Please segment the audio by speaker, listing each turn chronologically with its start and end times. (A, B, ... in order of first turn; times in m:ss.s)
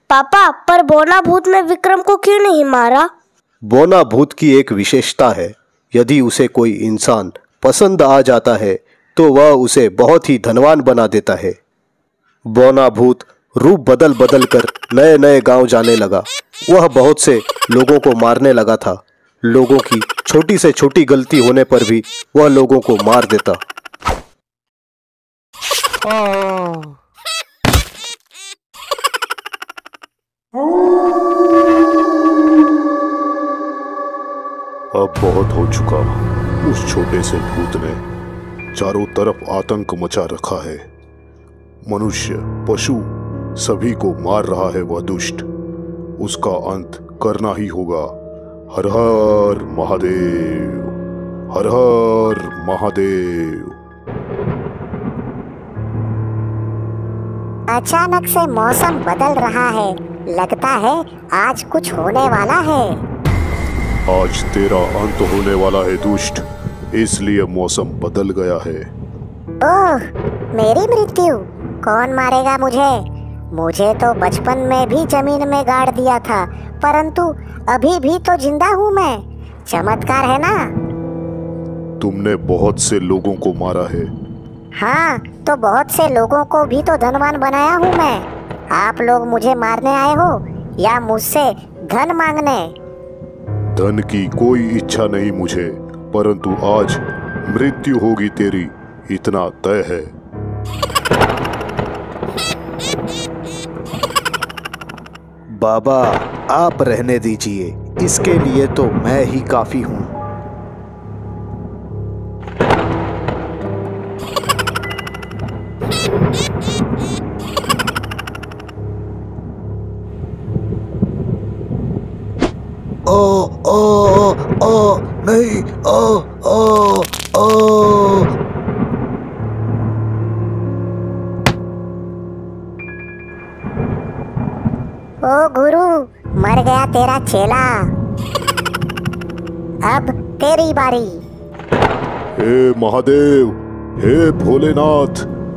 0:00.1-0:03.1 A
0:03.7-0:11.6 B
0:12.5-0:23.6 B
0:34.9-0:38.0 C
0:38.8-0:40.8 C
0:41.9-0:43.1 C
0:43.6-0:45.5 C
0:46.2-0:48.1 C
0:48.7-0:50.9 C
0:51.5-0:53.7 C
0:57.7-1:03.0 D
1:04.1-1:08.9 C
1:09.6-1:20.6 D
1:22.0-1:24.1 C
1:24.8-1:32.7 D
1:33.8-1:40.1 C
1:45.6-1:50.1 B
2:03.1-2:08.3 B
2:15.2-2:17.8 D
2:19.9-2:21.2 D
2:22.4-2:25.3 C